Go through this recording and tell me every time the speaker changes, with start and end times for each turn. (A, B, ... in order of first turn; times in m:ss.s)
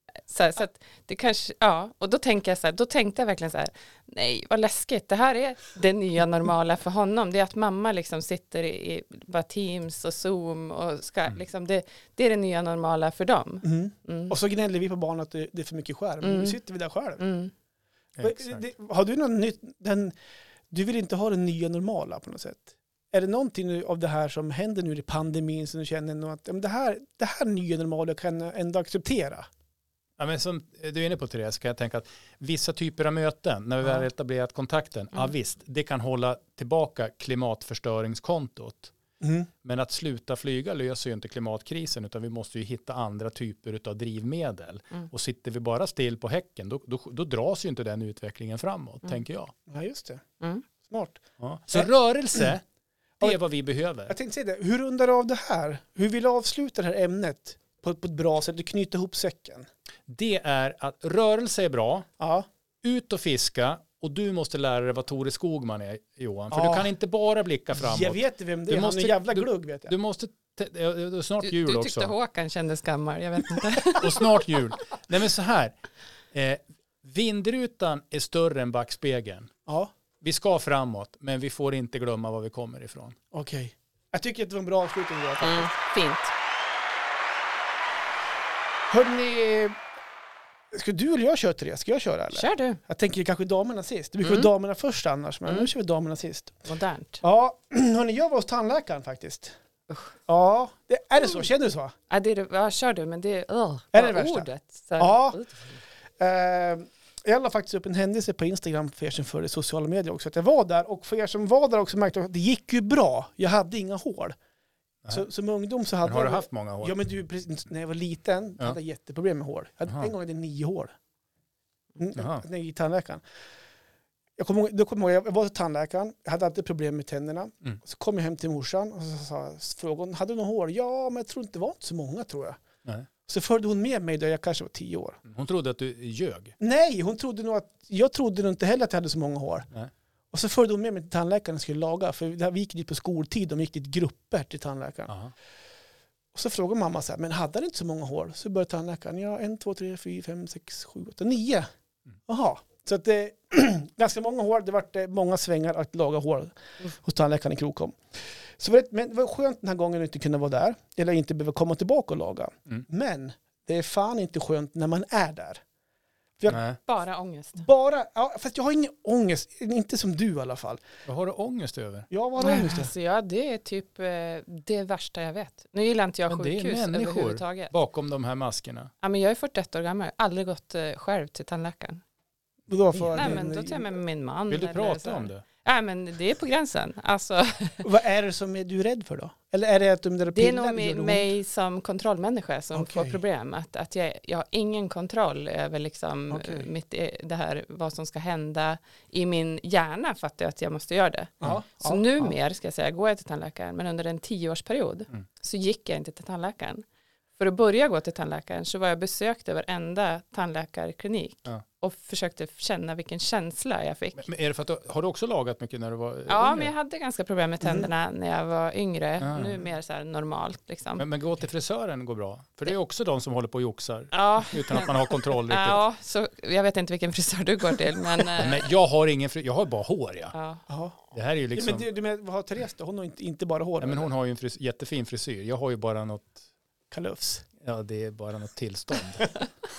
0:00.3-0:14.4 A
0:13.6-0:17.2 B
0:16.2-0:16.6 A
0:17.2-0:17.5 A
0:18.2-0:18.6 C
0:18.2-0:20.1 B
0:20.7-0:29.5 B
0:30.2-0:38.9 C
0:39.2-0:39.5 B
0:39.6-0:49.5 C
0:49.7-0:50.2 B
0:50.8-0:51.2 B
0:51.4-0:52.6 C
0:51.7-0:52.5 B
0:53.2-0:54.1 C
0:54.1-0:59.7 B
1:00.1-1:02.1 C
1:02.2-1:02.5 B
1:02.8-1:12.1 C
1:06.5-1:06.9 B
1:07.7-1:09.9 B
1:11.4-1:14.2 A
1:14.0-1:15.7 C
1:16.3-1:19.5 C
1:19.7-1:19.9 B
1:20.2-1:23.2 C
1:23.3-1:25.7 B
1:25.4-1:26.3 A
1:28.9-1:29.8 B
1:30.7-1:36.6 B
1:32.3-1:32.8 A
1:34.2-1:34.5 A
1:36.6-1:37.2 A
1:37.2-1:39.5 B
1:40.3-1:41.9 B
1:42.1-1:45.8 A
1:43.9-1:45.4 B
1:46.2-1:54.4 B
1:55.1-2:00.9 B
1:56.0-1:57.0 C
2:02.0-2:03.2 B
2:02.2-2:02.4 C
2:04.4-2:12.6 B
2:13.3-2:15.2 B
2:15.2-2:16.5 C
2:16.6-2:19.7 B
2:20.3-2:25.1 B
2:26.3-2:31.7 B
2:32.3-2:38.0 B
2:38.6-2:45.6 B
2:46.5-2:46.8 C
2:46.8-2:47.6 A
2:47.6-2:50.8 B
2:51.0-2:52.1 C
2:52.1-2:52.9 B
2:52.4-2:57.7 A
2:56.3-2:58.9 C
2:59.0-3:02.0 A
3:02.7-3:03.9 B
3:03.1-3:07.8 A
3:04.5-3:05.4 C
3:07.8-3:11.3 B
3:10.3-3:26.8 A
3:12.7-3:13.2 B
3:16.3-3:16.7 B
3:21.4-3:22.3 B
3:27.4-3:34.2 A
3:34.2-3:36.7 C
3:36.3-3:41.0 A
3:39.2-3:39.6 C
3:41.0-3:45.8 C
3:44.1-3:48.6 A
3:48.4-3:50.3 C
3:50.3-3:50.6 A
3:50.7-3:51.0 B
3:51.1-3:51.8 C
3:51.5-3:54.1 B
3:53.8-3:56.4 C
3:56.9-3:57.4 B
3:57.6-3:59.4 C